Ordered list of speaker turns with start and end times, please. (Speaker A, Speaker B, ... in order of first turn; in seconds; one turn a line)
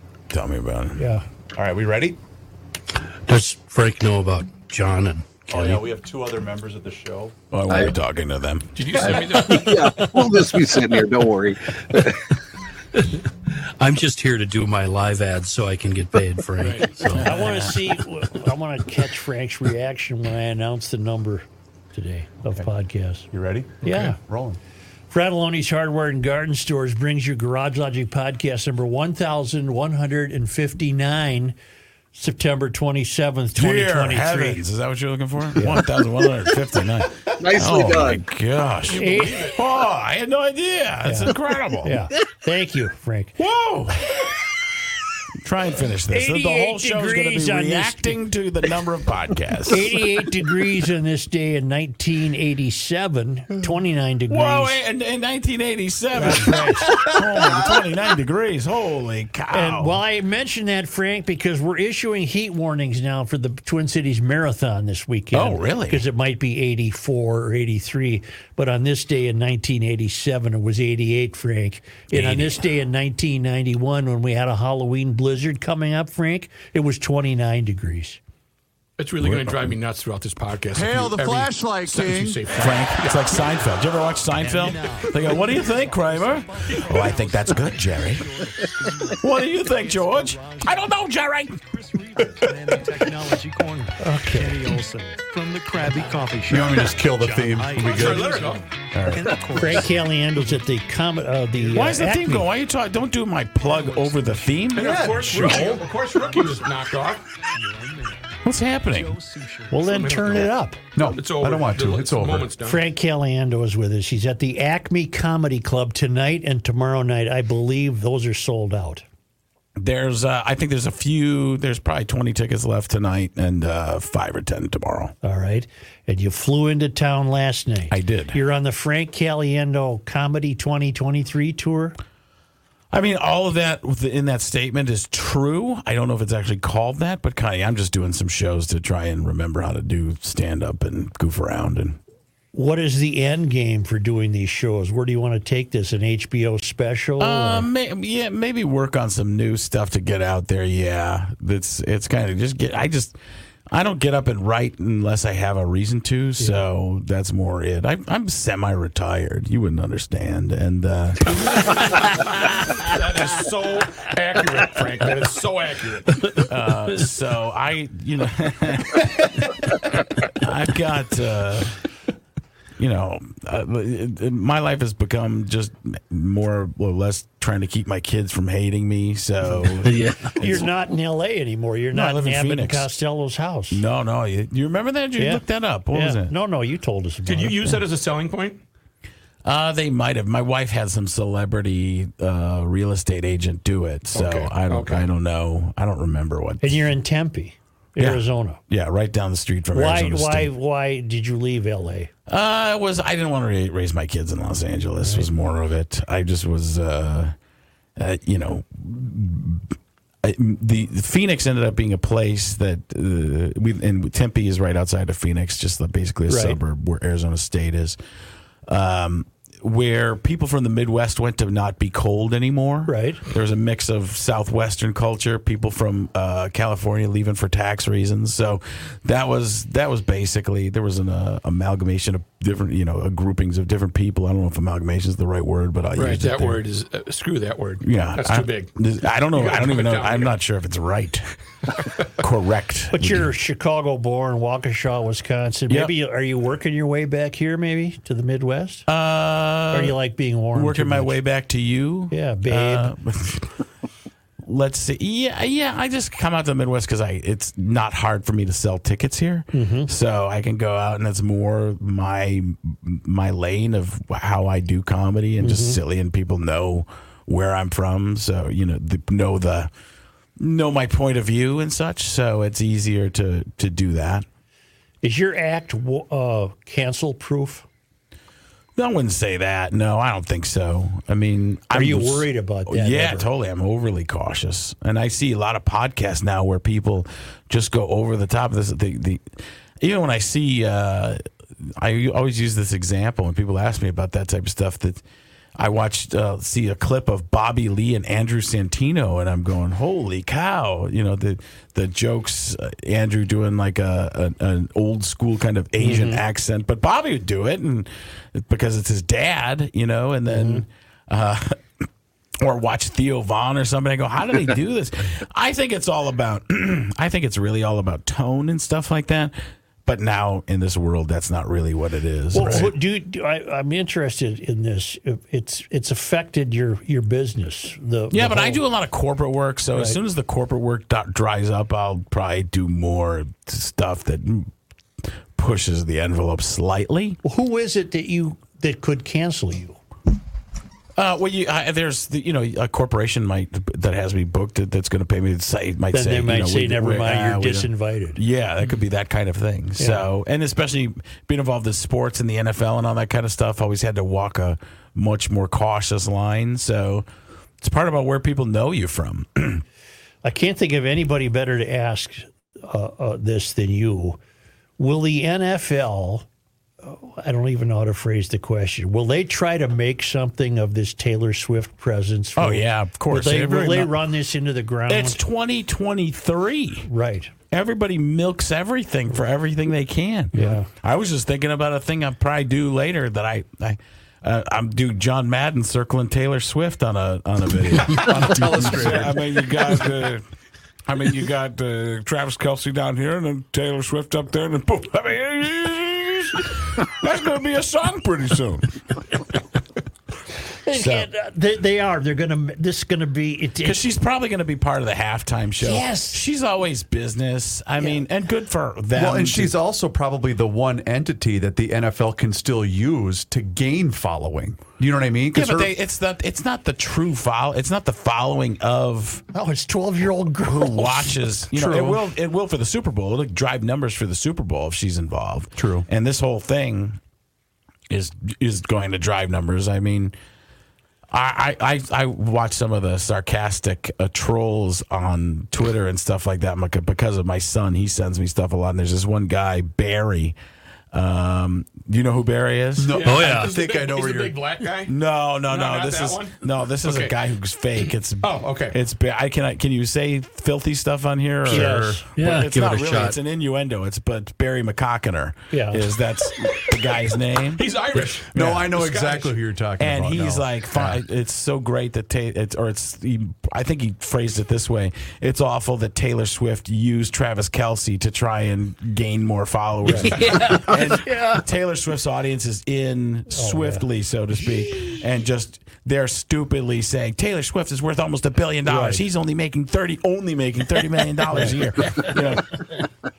Speaker A: 0.3-1.0
Speaker B: 1.0-1.2
Speaker C: 1.5-2.2
Speaker D: 3.3-5.9
Speaker C: 5.5-7.3
Speaker A: 7.5-8.8
Speaker E: 8.8-9.8
Speaker D: 9.2-9.5
Speaker F: 9.5-11.6
Speaker D: 10.0-10.3
Speaker D: 13.8-17.6
Speaker E: 16.6-17.1
Speaker A: 17.1-17.8
Speaker B: 17.2-23.3
Speaker C: 23.3-24.6
Speaker B: 23.8-24.2
Speaker B: 25.1-31.6
Speaker B: 32.1-34.6
Speaker A: 33.5-42.0
Speaker B: 35.5-35.8
Speaker F: 37.4-38.2
Speaker E: 38.9-39.6
Speaker B: 38.9-39.5
Speaker B: 41.0-43.4
Speaker A: 43.4-44.2
Speaker A: 45.4-50.0
Speaker B: 46.1-48.2
Speaker B: 49.7-54.8
Speaker A: 54.3-60.0
Speaker B: 56.1-57.0
Speaker B: 59.5-78.2
Speaker A: 65.3-66.0
Speaker A: 72.1-72.6
Speaker E: 79.0-83.5
Speaker A: 79.2-79.7
Speaker C: 80.7-82.4
Speaker A: 82.5-88.2
Speaker G: 84.4-91.0
Speaker A: 89.2-91.6
Speaker G: 91.7-100.6
Speaker B: 94.0-94.6
Speaker C: 96.5-98.5
Speaker E: 97.9-98.7
Speaker A: 98.9-99.4
Speaker B: 99.5-102.5
Speaker G: 101.6-102.0
Speaker A: 101.7-104.9
Speaker G: 103.6-106.7
Speaker E: 104.7-107.2
Speaker C: 104.8-105.9
Speaker G: 107.5-110.1
Speaker A: 108.5-109.2
Speaker B: 109.7-110.8
Speaker E: 109.8-112.8
Speaker C: 111.0-112.5
Speaker B: 112.6-119.0
Speaker A: 119.8-125.2
Speaker B: 125.2-132.0
Speaker A: 127.9-128.4
Speaker A: 132.9-142.0
Speaker B: 142.5-147.7
Speaker A: 147.2-153.2
Speaker A: 153.7-161.4
Speaker E: 161.6-166.4
Speaker A: 166.4-169.1
Speaker A: 170.4-171.8
Speaker A: 172.8-180.7
Speaker D: 179.8-180.4
Speaker B: 180.4-183.8
Speaker A: 181.9-182.9
Speaker A: 183.7-186.3
Speaker B: 185.2-187.8
Speaker E: 187.3-188.6
Speaker A: 189.4-196.9
Speaker E: 194.1-195.1
Speaker B: 196.6-198.6
Speaker A: 198.0-200.5
Speaker B: 199.7-202.1
Speaker A: 202.3-207.3
Speaker A: 208.0-218.0
Speaker B: 216.3-216.6
Speaker A: 218.7-236.6
Speaker B: 222.9-223.2
Speaker E: 236.0-238.7
Speaker A: 237.8-241.3
Speaker E: 239.3-240.3
Speaker A: 242.1-243.3
Speaker B: 242.9-248.9
Speaker A: 245.7-245.9
Speaker A: 248.9-250.0
Speaker B: 249.7-251.2
Speaker A: 250.5-253.5
Speaker B: 252.1-252.9
Speaker A: 254.4-269.7
Speaker B: 259.5-259.9
Speaker B: 265.4-265.8
Speaker A: 270.4-274.2
Speaker B: 275.0-277.7
Speaker A: 278.8-289.3
Speaker B: 281.7-283.3
Speaker A: 289.8-295.0
Speaker A: 295.6-311.6
Speaker B: 305.8-306.2
Speaker B: 310.3-310.6
Speaker A: 312.4-322.8
Speaker B: 322.3-328.6
Speaker A: 328.1-334.5
Speaker A: 335.4-337.2
Speaker B: 337.2-339.8
Speaker A: 341.0-357.1
Speaker B: 345.9-348.2
Speaker B: 349.8-350.1
Speaker A: 357.6-359.6
Speaker B: 360.2-364.2
Speaker B: 364.8-366.3
Speaker B: 366.8-375.2
Speaker A: 372.4-374.0
Speaker A: 374.9-376.9
Speaker B: 376.9-377.3
Speaker A: 377.5-390.2
Speaker B: 380.3-380.7
Speaker C: 387.9-389.3
Speaker A: 390.9-399.0
Speaker B: 400.6-403.9
Speaker A: 400.7-401.1
Speaker A: 403.6-409.6
Speaker B: 405.6-406.2
Speaker C: 408.9-415.7
Speaker A: 415.3-419.2
Speaker B: 419.3-422.0
Speaker A: 420.4-427.0
Speaker C: 425.6-425.9
Speaker A: 427.9-430.1
Speaker A: 431.1-440.4
Speaker A: 440.9-443.1
Speaker C: 442.8-444.5
Speaker E: 442.9-444.9
Speaker D: 443.1-443.6
Speaker A: 444.9-457.6
Speaker E: 445.5-447.1
Speaker E: 448.2-448.8
Speaker B: 451.5-452.1
Speaker C: 451.5-452.1
Speaker D: 452.1-453.2
Speaker B: 455.5-455.8
Speaker E: 457.6-459.4
Speaker C: 457.9-461.0
Speaker A: 459.8-482.7
Speaker B: 469.9-470.4
Speaker B: 473.3-473.9
Speaker B: 478.7-479.0